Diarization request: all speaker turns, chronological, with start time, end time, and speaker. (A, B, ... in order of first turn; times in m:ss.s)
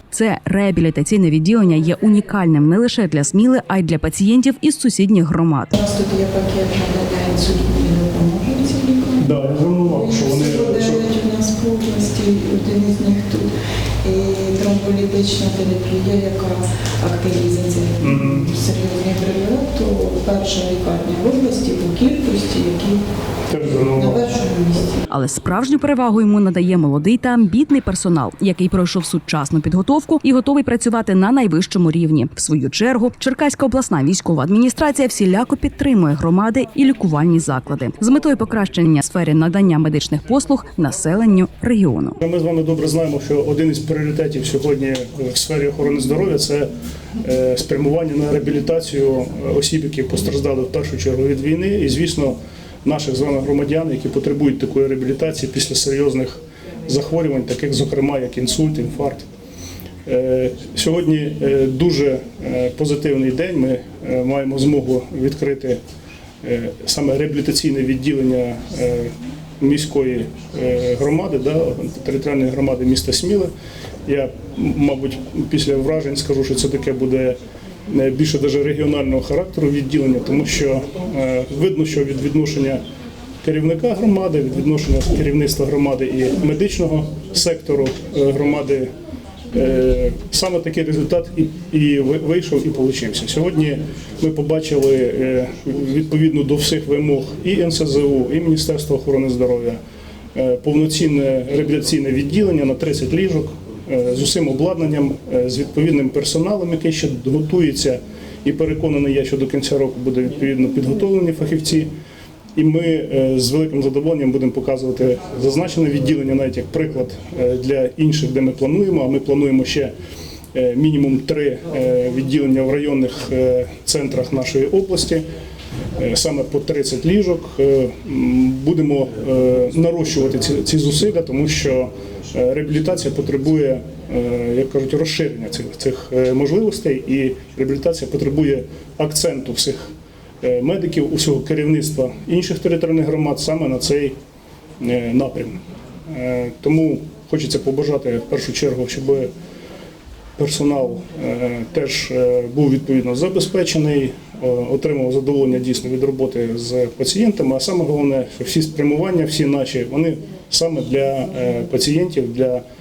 0:00.1-0:05.8 A
0:05.7-0:13.5 B
0:09.2-0:11.1 C
0:14.0-0:23.0 B
0:18.0-0:18.5 C
0:23.5-0:24.3 C
0:23.6-0:25.0 B
0:25.1-0:42.2 A
0:42.2-0:59.2 C
1:00.0-1:05.8 C
1:06.4-1:13.5 C
1:14.1-1:22.8 C
1:23.4-1:28.9 C
1:29.5-1:39.8 C
1:40.4-1:51.9 C
1:52.6-2:00.0 C
2:00.5-2:05.2 C
2:06.0-2:19.9 C
2:20.4-2:24.2 C
2:24.8-2:29.3 C
2:30.4-2:42.6 C